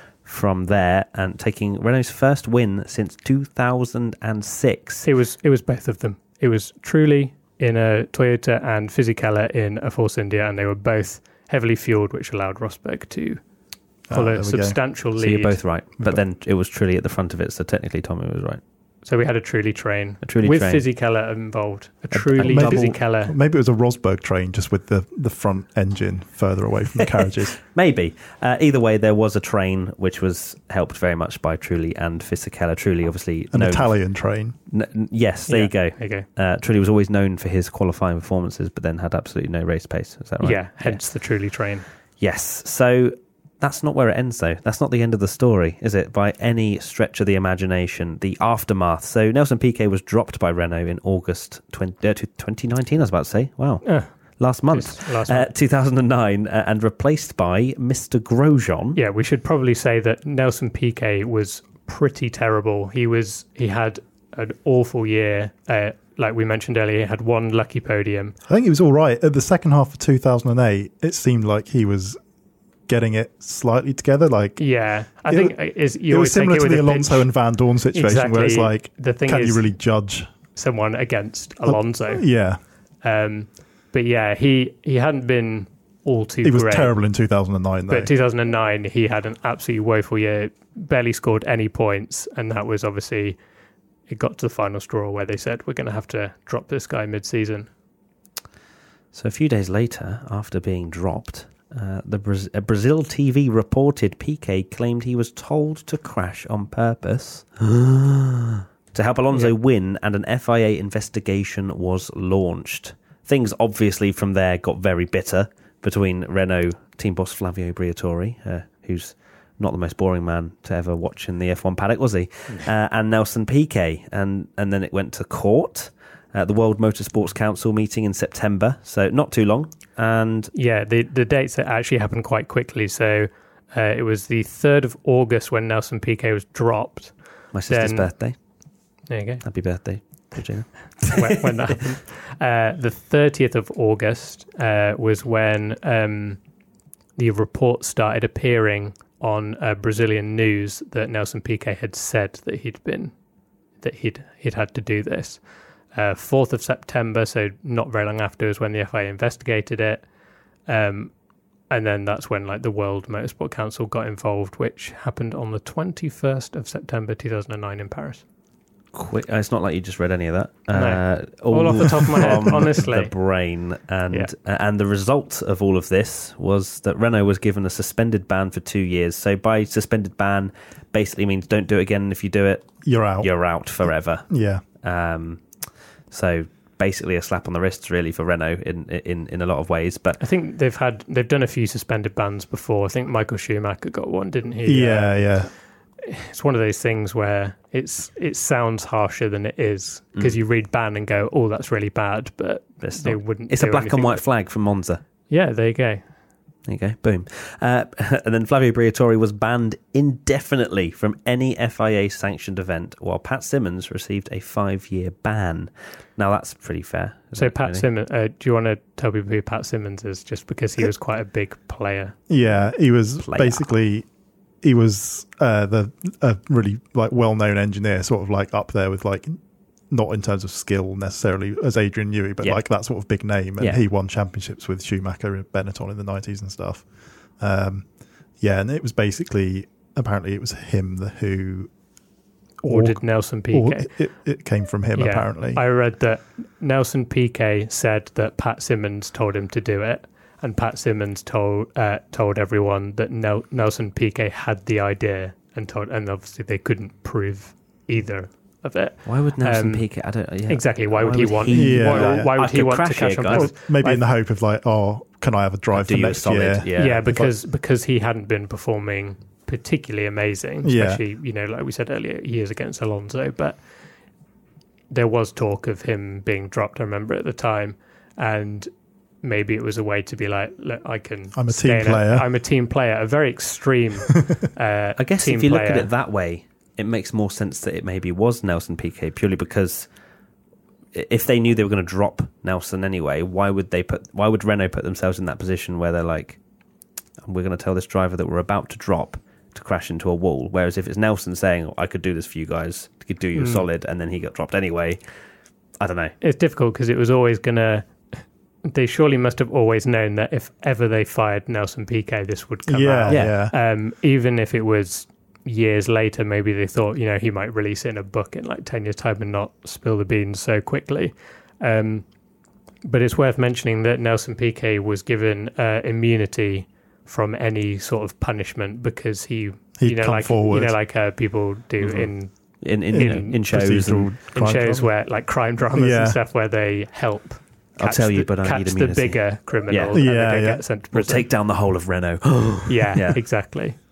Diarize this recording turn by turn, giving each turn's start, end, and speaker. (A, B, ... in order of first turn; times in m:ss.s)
0:00.2-0:05.0 A
0:05.0-0:13.4 B
0:14.1-0:14.8 C
0:14.1-0:15.6 B
0:15.2-0:18.6 A
0:19.0-0:23.3 B
0:20.2-0:20.8 A
0:22.1-0:22.9 A
0:22.4-0:27.6 C
0:27.7-0:34.0 A
0:33.5-0:34.6 C
0:34.7-0:41.0 A
0:35.5-0:36.2 B
0:40.4-0:41.8 B
0:42.2-0:59.0 A
0:53.8-0:54.1 B
0:54.7-0:55.5 B
0:58.9-1:08.3 B
1:08.5-1:12.2 C
1:12.9-1:14.6 C
1:14.6-1:17.3 B
1:15.2-1:20.3 C
1:17.9-1:19.7 B
1:20.5-1:22.2 B
1:21.6-1:22.6 C
1:23.0-1:26.9 B
1:26.4-1:28.1 C
1:27.9-1:33.4 B
1:34.1-1:37.7 B
1:39.1-2:10.5 A
2:10.5-2:17.1 B
2:17.5-2:18.3 A
2:17.7-2:18.1 B
2:19.1-2:19.4 B
2:19.4-2:21.4 A
2:21.0-2:26.4 B
2:27.2-2:33.1 B
2:33.8-2:35.4 B
2:35.9-2:40.0 B
2:40.7-2:41.1 B
2:41.7-2:48.2 B
2:48.9-3:04.3 A
2:50.7-2:53.1 B
3:02.8-3:03.3 C
3:04.3-3:04.6 C
3:04.8-3:05.4 A
3:06.1-3:10.2 A
3:10.2-3:15.3 B
3:14.6-3:15.5 C
3:16.0-3:24.2 B
3:22.8-3:25.0 A
3:25.3-3:26.0 B
3:26.7-3:37.8 A
3:37.4-3:42.2 B
3:42.3-3:44.0 C
3:43.2-3:43.6 A
3:44.6-3:49.4 C
3:49.9-3:56.8 C
3:57.4-3:57.8 C
3:58.4-4:01.7 C
4:02.6-4:03.9 B
4:02.6-4:05.6 C
4:04.9-4:19.8 B
4:19.0-4:23.5 A
4:20.5-4:24.0 B
4:21.5-4:22.3 C
4:23.3-4:27.3 C
4:25.7-4:27.0 A
4:26.8-4:33.6 B
4:30.6-4:31.0 C
4:34.9-4:38.7 B
4:39.2-4:45.9 B
4:41.3-4:42.3 C
4:45.0-4:49.9 A
4:50.9-4:56.4 A
4:57.2-5:05.0 A
5:03.4-5:03.6 B
5:05.8-5:06.2 A
5:06.2-5:07.9 B
5:08.6-5:22.0 B
5:12.7-5:13.5 C
5:13.1-5:13.4 A
5:22.8-5:32.3 B
5:29.8-5:30.8 C
5:31.8-5:32.1 A
5:32.6-5:34.1 A
5:32.9-5:33.5 B
5:32.9-5:34.9 C
5:34.3-5:41.3 B
5:35.7-5:36.2 C
5:37.8-5:40.0 A
5:39.9-5:40.6 C
5:40.9-5:43.2 A
5:42.6-5:43.8 B